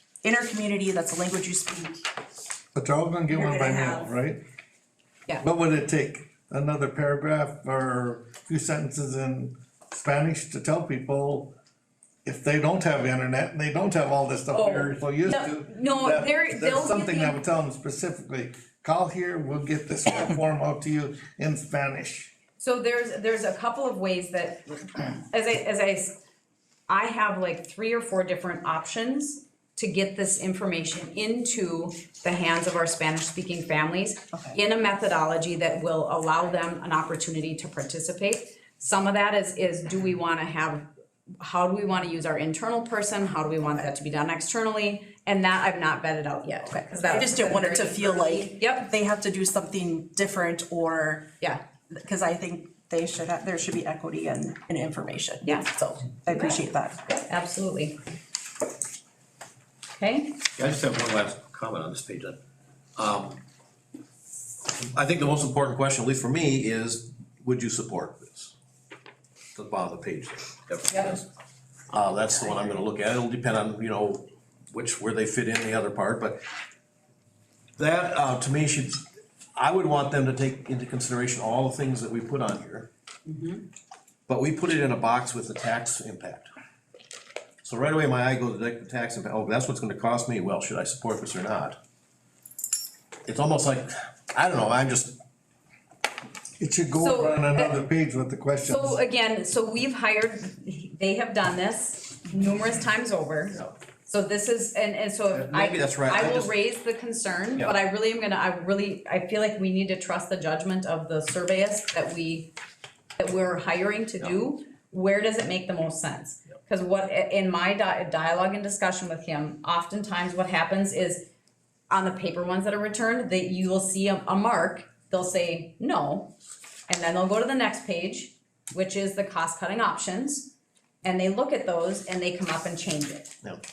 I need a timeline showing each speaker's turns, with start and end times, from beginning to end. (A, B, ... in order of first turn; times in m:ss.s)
0:00.2-0:02.0 A
0:02.7-0:04.4 B
0:03.3-0:04.1 C
0:05.4-0:11.5 B
0:12.2-0:22.3 B
0:14.5-0:17.4 C
0:22.6-0:26.2 C
0:26.9-0:40.9 C
0:41.4-0:48.9 C
0:46.9-0:51.3 A
0:51.9-0:57.0 A
0:55.4-0:55.7 C
0:56.2-0:58.0 C
1:00.0-1:00.4 C
1:00.5-1:02.4 D
1:03.0-1:03.4 D
1:04.7-1:08.5 D
1:09.5-1:11.2 D
1:11.9-1:16.4 D
1:17.8-1:22.9 D
1:23.2-1:23.6 C
1:24.3-1:26.5 D
1:27.6-1:31.8 D
1:33.2-1:35.2 D
1:36.6-1:39.0 B
1:37.0-1:37.8 C
1:38.7-1:52.6 C
1:45.3-1:46.5 D
1:53.2-2:01.3 C
2:01.9-2:06.3 C
2:06.9-2:13.4 C